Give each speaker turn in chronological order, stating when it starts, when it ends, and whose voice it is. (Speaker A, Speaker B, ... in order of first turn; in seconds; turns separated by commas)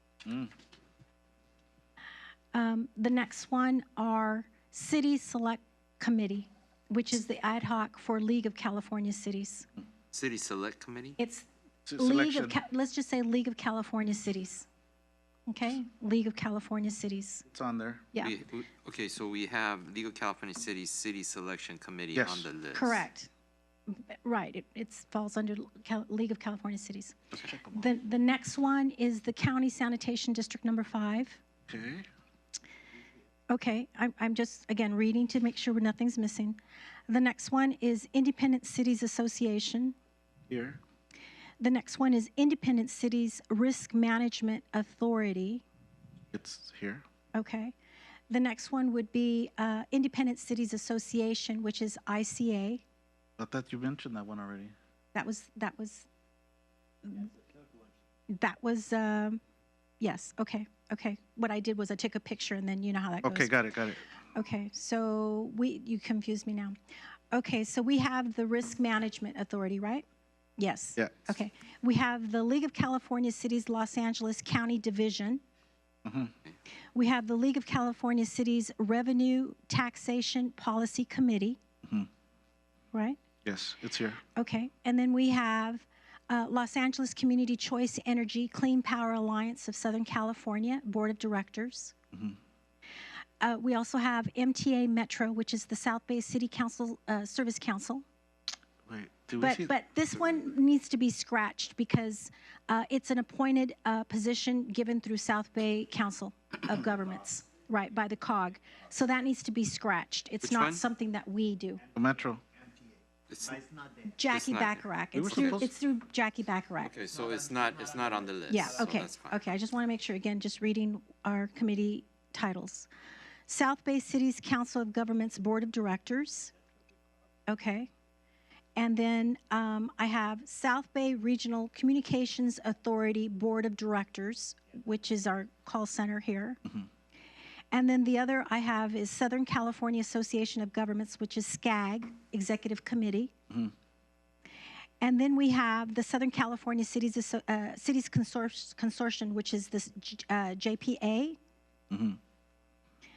Speaker A: 0.2-0.5, Speaker B: 2.5-9.7, Speaker C: 10.1-11.2, Speaker B: 11.2-14.7, Speaker A: 11.9-12.6, Speaker B: 15.5-17.5, Speaker A: 17.5-18.1, Speaker B: 18.1-18.4, Speaker C: 18.2-23.0, Speaker A: 22.1-22.5, Speaker B: 22.7-23.3, Speaker B: 23.9-27.2, Speaker A: 27.4-27.9, Speaker B: 27.7-31.4, Speaker A: 31.7-32.1, Speaker B: 33.5-40.0, Speaker A: 40.5-40.8, Speaker B: 41.6-45.6, Speaker A: 46.3-47.0, Speaker B: 47.3-47.8, Speaker B: 48.3-52.8, Speaker A: 53.4-54.7, Speaker B: 55.1-56.1, Speaker B: 57.0-57.3, Speaker B: 58.3-59.4, Speaker B: 60.0-63.6, Speaker A: 63.2-64.0, Speaker B: 64.3-66.8, Speaker B: 67.3-70.0, Speaker B: 70.6-75.4, Speaker A: 71.0-71.3, Speaker A: 76.0-76.3, Speaker B: 77.0-81.6, Speaker B: 82.9-83.2, Speaker A: 83.4-84.2, Speaker B: 84.3-91.9, Speaker B: 93.4-98.0, Speaker A: 98.9-99.7, Speaker B: 99.4-111.8, Speaker C: 110.4-110.8, Speaker A: 111.9-112.4, Speaker C: 113.3-113.7, Speaker B: 114.1-117.0, Speaker C: 114.3-115.6, Speaker A: 115.1-115.7, Speaker C: 116.8-119.4, Speaker B: 118.5-122.9, Speaker B: 123.5-126.5, Speaker B: 127.5-127.9, Speaker B: 128.8-136.6, Speaker B: 137.7-143.3, Speaker B: 145.0-151.4, Speaker A: 151.9-152.2